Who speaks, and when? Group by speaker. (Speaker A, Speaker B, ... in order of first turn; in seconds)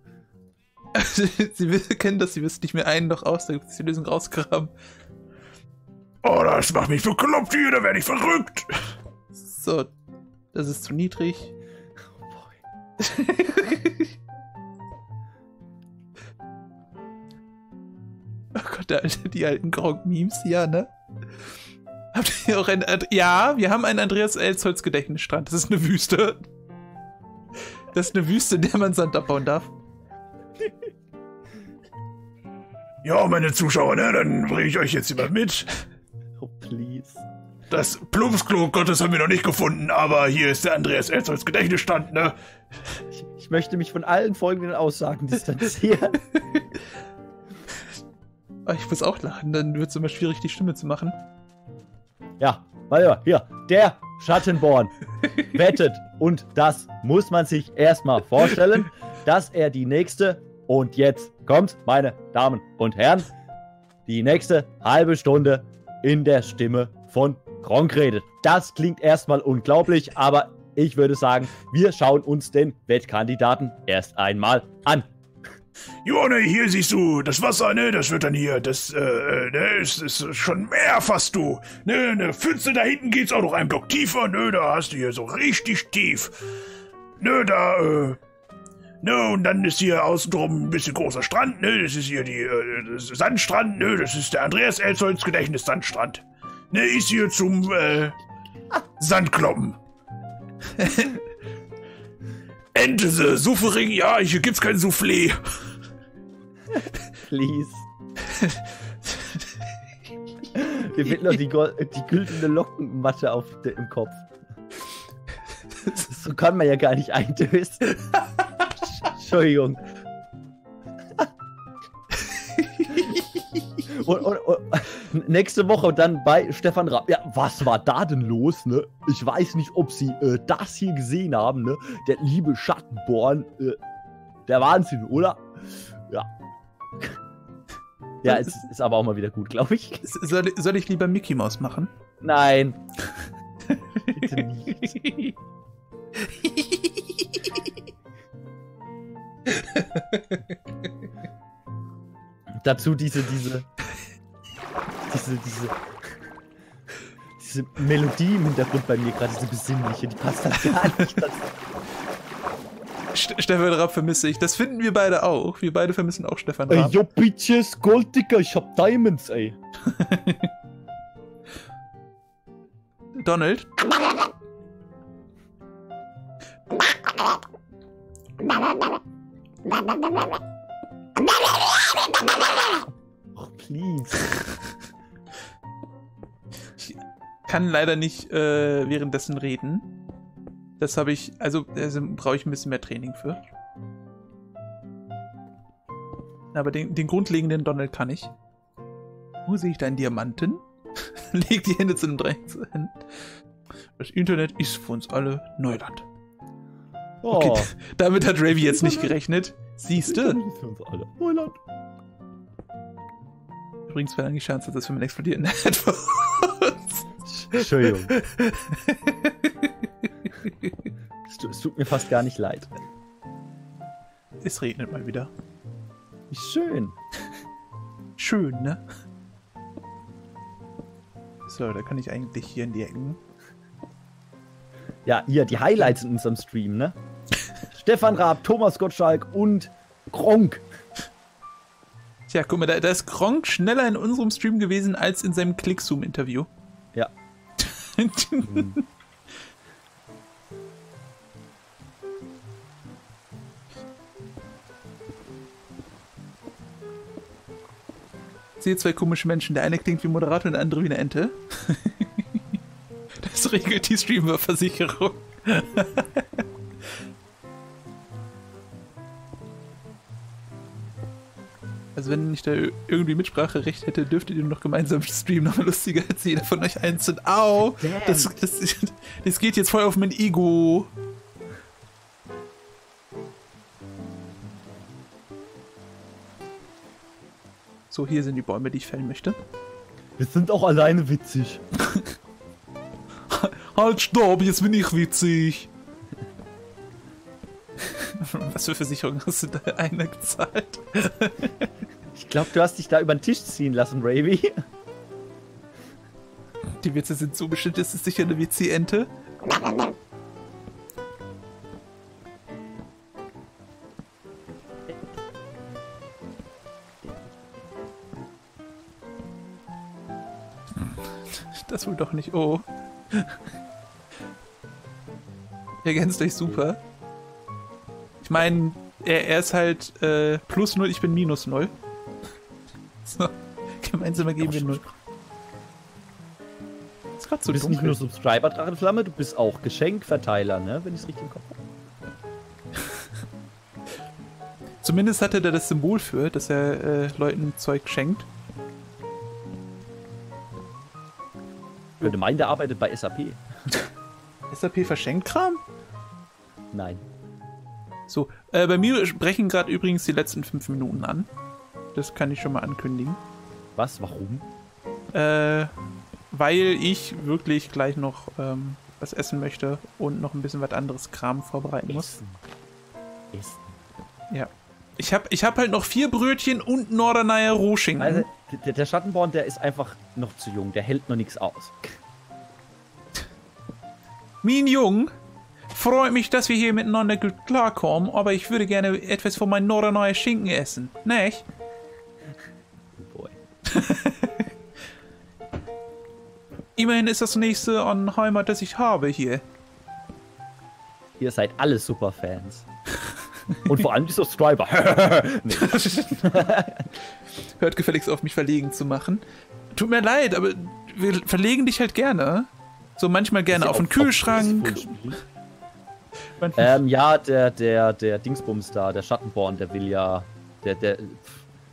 Speaker A: 0.9-4.7, 9.3-9.9, 10.5-11.5, 13.0-14.1, 18.5-20.9, 22.1-26.5, 27.9-29.7, 46.4-46.8, 48.6-51.2, 100.8-101.1, 108.3-109.4, 122.5-123.2, 138.3-138.5, 140.0-141.9, 143.7-145.3, 146.2-147.7, 149.5-150.4, 163.1-167.0, 169.9-170.5, 173.1-173.8, 186.8-189.9, 190.8-193.4, 196.5-198.3, 199.4-203.0, 204.0-206.1, 207.3-210.4, 213.9-220.8, 224.4-225.3, 228.2-228.8, 231.4-233.2, 242.3-246.5, 247.6-248.8, 258.6-262.4, 263.2-266.4, 271.9-280.9, 287.9-289.4, 291.8-292.1, 293.3-295.7, 297.8-301.7, 306.8-309.1, 321.5-323.4, 325.8-326.8, 328.2-331.7, 333.0-334.8, 337.2-338.0, 344.8-348.3, 354.5-355.6, 358.1-361.3, 361.9-363.2, 365.1-365.7, 366.3-372.2, 374.3-378.3, 384.4-385.1, 385.7-391.4, 393.7-394.5, 396.8-399.4, 405.6-406.2, 407.6-409.2, 409.7-415.1, 416.4-416.8
Speaker B: 6.2-8.7, 33.0-35.8, 37.7-42.3, 76.0-86.3, 87.2-88.2, 89.0-98.2, 99.0-99.8, 102.7-105.4
Speaker C: 12.2-12.5, 36.4-37.2, 43.2-46.2, 52.4-63.3, 64.0-75.1, 106.7-107.9, 110.5-114.3, 116.0-118.0, 119.0-119.8, 123.8-133.8, 134.5-136.3, 138.2-140.1, 142.2-142.8, 144.2-144.9, 152.5-153.7, 155.1-155.8, 157.4-161.5, 166.7-169.6, 183.3-184.2, 207.2-207.7, 208.5-209.1, 210.0-211.6, 217.3-218.1, 221.3-222.8, 226.3-226.9, 235.0-237.0, 237.7-240.6, 248.4-248.8, 277.8-278.3, 290.2-291.6, 302.1-304.6, 334.4-334.8, 337.4-341.6, 352.0-353.4, 356.7-357.0, 363.7-364.5, 371.9-372.4, 373.3-373.7, 378.0-382.0, 392.9-393.4, 401.2-402.6, 403.6-406.9, 413.5-415.2, 416.6-421.4